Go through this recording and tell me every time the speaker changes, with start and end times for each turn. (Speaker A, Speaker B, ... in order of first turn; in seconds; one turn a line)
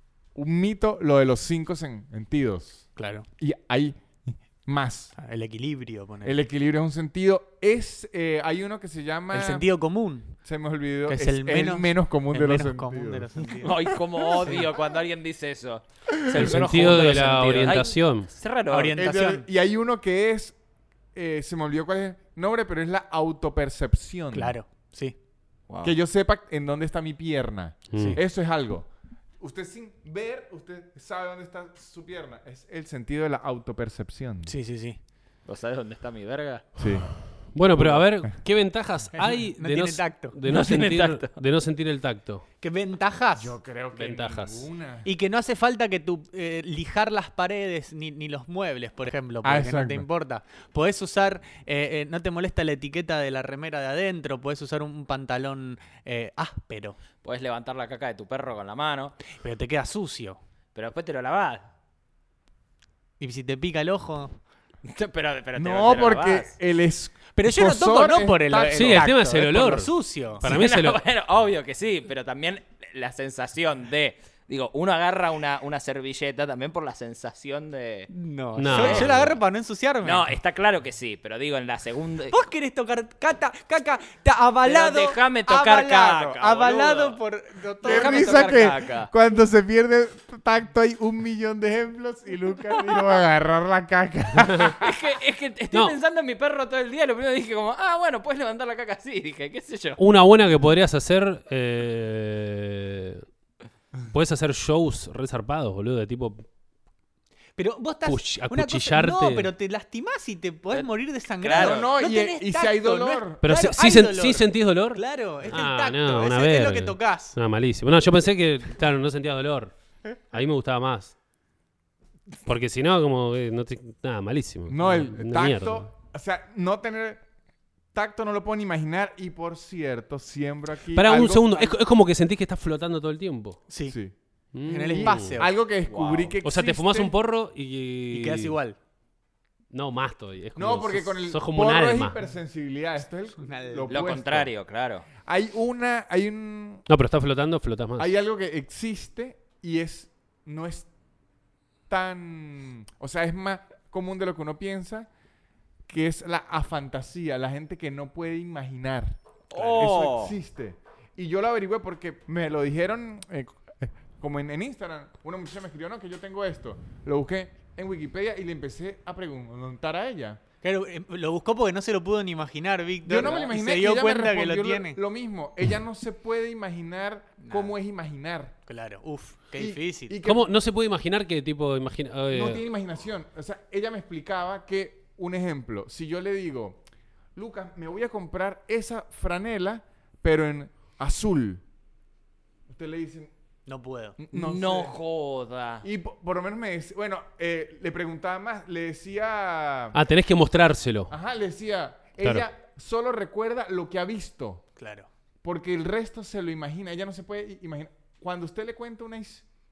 Speaker A: 0.3-5.1
Speaker B: 3.0-3.3
Speaker B: 5.2-6.4
Speaker A: 6.2-9.7
Speaker B: 9.3-10.4
Speaker A: 10.4-13.3
Speaker B: 11.1-13.8
Speaker C: 13.6-19.0
Speaker D: 16.3-18.3
Speaker B: 18.7-19.5
Speaker A: 19.0-20.6
Speaker A: 21.1-24.6
Speaker B: 24.3-25.2
Speaker C: 25.7-26.0
Speaker A: 25.8-34.5
Speaker D: 27.9-28.2
Speaker B: 27.9-28.2
Speaker B: 34.5-35.0
Speaker C: 35.5-36.8
Speaker A: 36.8-37.2
Speaker D: 37.5-42.5
Speaker A: 37.8-38.3
Speaker B: 39.1-40.4
Speaker C: 40.5-41.4
Speaker B: 42.6-43.5
Speaker A: 43.4-45.1
Speaker D: 43.9-44.7
Speaker B: 45.0-57.0
Speaker A: 49.4-50.1
Speaker C: 57.2-59.2
Speaker B: 59.4-60.4
Speaker C: 60.8-61.7
Speaker B: 63.2-64.4
Speaker C: 64.8-66.5
Speaker A: 65.5-69.1
Speaker B: 67.3-70.5
Speaker D: 68.7-71.0
Speaker C: 70.4-78.1
Speaker B: 78.1-80.3
Speaker D: 78.6-79.3
Speaker C: 78.7-79.3
Speaker C: 80.0-82.3
Speaker B: 82.3-88.7
Speaker C: 84.7-87.2
Speaker C: 87.8-89.1
Speaker A: 87.8-95.0
Speaker C: 94.8-100.0
Speaker D: 100.0-103.2
Speaker D: 104.1-106.5
Speaker B: 107.6-117.4
Speaker D: 108.0-109.5
Speaker C: 111.4-111.9
Speaker A: 111.6-113.4
Speaker D: 113.4-119.7
Speaker D: 120.3-121.1
Speaker D: 122.5-125.9
Speaker A: 124.7-127.2
Speaker A: 127.9-131.7
Speaker D: 130.9-133.6
Speaker B: 133.7-134.0
Speaker A: 133.9-134.2
Speaker D: 134.5-135.4
Speaker B: 134.7-135.5
Speaker A: 134.9-137.1
Speaker C: 135.9-136.4
Speaker D: 136.4-138.6
Speaker B: 138.1-138.8
Speaker D: 139.7-142.2
Speaker A: 140.6-144.5
Speaker B: 143.4-144.0
Speaker C: 143.9-145.1
Speaker A: 145.2-146.8
Speaker D: 146.9-148.1
Speaker A: 148.0-150.9
Speaker A: 151.9-155.1
Speaker A: 155.9-170.4
Speaker C: 159.5-160.3
Speaker B: 170.6-175.0
Speaker A: 173.1-178.6
Speaker B: 177.4-177.7
Speaker B: 178.7-180.1
Speaker A: 179.6-180.5
Speaker D: 180.2-182.6
Speaker A: 182.3-186.8
Speaker A: 187.3-191.6
Speaker A: 192.7-193.3
Speaker B: 193.7-194.2
Speaker A: 194.2-195.0
Speaker C: 194.3-195.8
Speaker A: 195.8-200.0
Speaker D: 199.9-201.1
Speaker A: 201.1-204.6
Speaker B: 204.8-205.1
Speaker A: 205.4-209.5